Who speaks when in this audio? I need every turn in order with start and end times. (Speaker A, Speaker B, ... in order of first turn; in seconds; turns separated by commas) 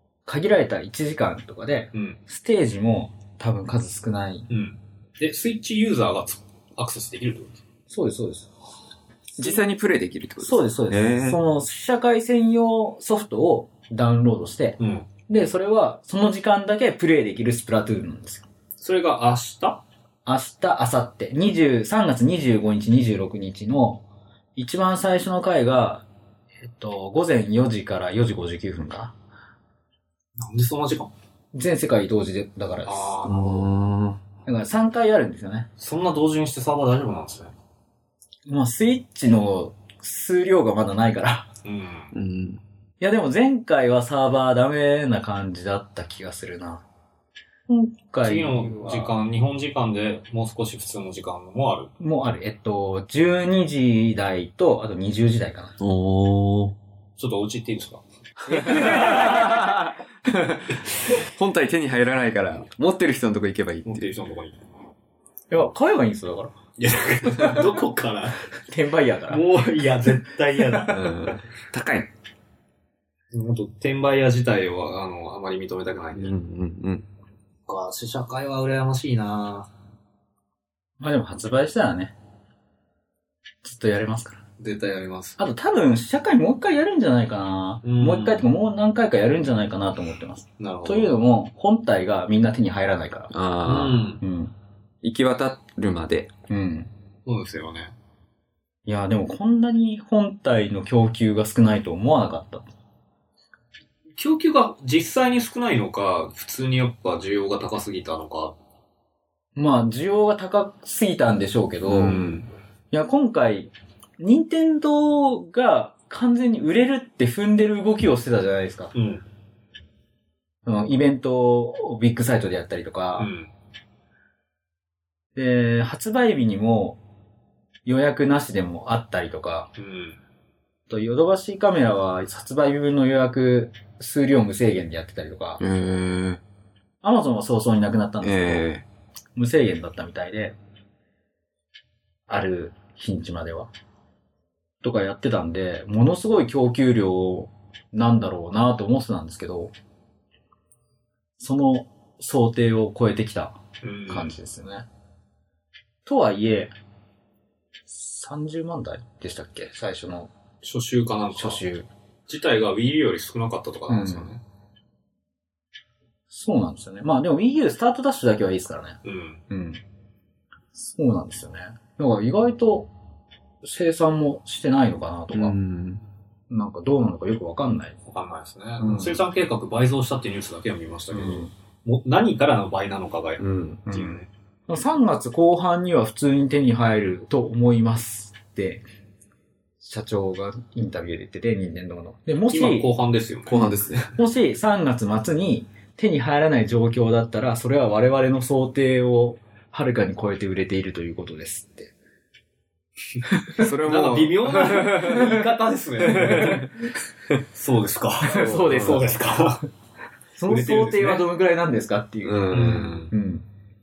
Speaker A: 0.3-4.5, Speaker B: 1.9-2.2, Speaker B: 4.5-7.6, Speaker A: 7.9-8.5, Speaker C: 9.4-11.4, Speaker A: 10.4-18.5, Speaker B: 14.8-15.1, Speaker B: 18.8-19.8, Speaker A: 20.3-24.1, Speaker A: 24.6-26.1, Speaker A: 26.6-29.1, Speaker B: 30.4-31.1, Speaker A: 31.5-33.2, Speaker B: 32.9-33.7, Speaker C: 33.2-34.2, Speaker A: 34.5-35.7, Speaker B: 35.8-37.5, Speaker A: 38.5-41.5, Speaker B: 41.6-42.1, Speaker C: 42.1-42.6, Speaker A: 43.0-46.9, Speaker A: 47.7-49.1, Speaker B: 48.2-51.9, Speaker A: 52.0-55.8, Speaker C: 55.8-56.8, Speaker B: 57.2-58.0, Speaker A: 58.5-59.7, Speaker C: 58.5-64.1, Speaker B: 58.6-59.5, Speaker B: 63.9-64.6, Speaker A: 65.5-66.5, Speaker B: 66.8-68.5, Speaker A: 68.7-69.5, Speaker B: 69.3-71.2, Speaker C: 70.9-72.1, Speaker B: 73.3-76.3, Speaker C: 76.2-77.1, Speaker B: 77.7-79.7, Speaker A: 81.0-82.2, Speaker A: 83.6-84.4, Speaker B: 84.6-85.4, Speaker A: 85.4-93.3, Speaker B: 87.8-88.5, Speaker B: 90.6-91.1, Speaker C: 93.3-94.1, Speaker B: 93.7-94.2, Speaker A: 94.2-94.5, Speaker C: 95.0-96.3, Speaker A: 96.5-96.9, Speaker B: 97.3-97.9, Speaker A: 98.9-102.7, Speaker B: 104.2-108.6, Speaker A: 109.6-112.3, Speaker C: 111.9-112.4, Speaker B: 112.0-112.5, Speaker A: 112.9-118.9, Speaker B: 118.9-119.2, Speaker A: 120.7-123.3, Speaker B: 123.2-123.5, Speaker A: 125.4-127.0, Speaker A: 127.9-129.7, Speaker B: 129.8-130.2, Speaker A: 130.9-135.6, Speaker C: 135.6-136.4, Speaker A: 137.0-138.7, Speaker C: 138.2-138.9, Speaker A: 139.3-140.6, Speaker A: 142.3-143.7, Speaker A: 144.8-149.7, Speaker A: 151.4-154.9, Speaker B: 153.8-154.4, Speaker A: 156.1-156.7, Speaker A: 157.9-160.3, Speaker B: 160.6-161.6, Speaker A: 161.3-161.9, Speaker B: 162.3-164.4, Speaker A: 163.9-164.3, Speaker A: 166.3-169.0, Speaker B: 169.0-169.4, Speaker A: 169.5-169.8, Speaker A: 170.8-172.9, Speaker A: 173.6-175.6, Speaker C: 175.3-176.0, Speaker A: 176.5-178.0, Speaker B: 178.1-184.3, Speaker A: 178.8-179.2, Speaker A: 181.1-181.5, Speaker C: 183.4-183.8, Speaker A: 183.9-188.8, Speaker A: 189.8-192.9, Speaker B: 192.5-193.7, Speaker C: 193.5-194.2, Speaker A: 194.2-201.9, Speaker A: 203.4-203.7, Speaker C: 203.6-204.9, Speaker B: 203.7-206.7, Speaker A: 204.8-205.3, Speaker A: 206.1-206.7, Speaker B: 207.5-209.7, Speaker A: 208.2-209.1, Speaker C: 208.4-209.0, Speaker A: 210.4-213.4, Speaker B: 210.4-211.3, Speaker C: 212.2-213.1, Speaker B: 212.5-213.1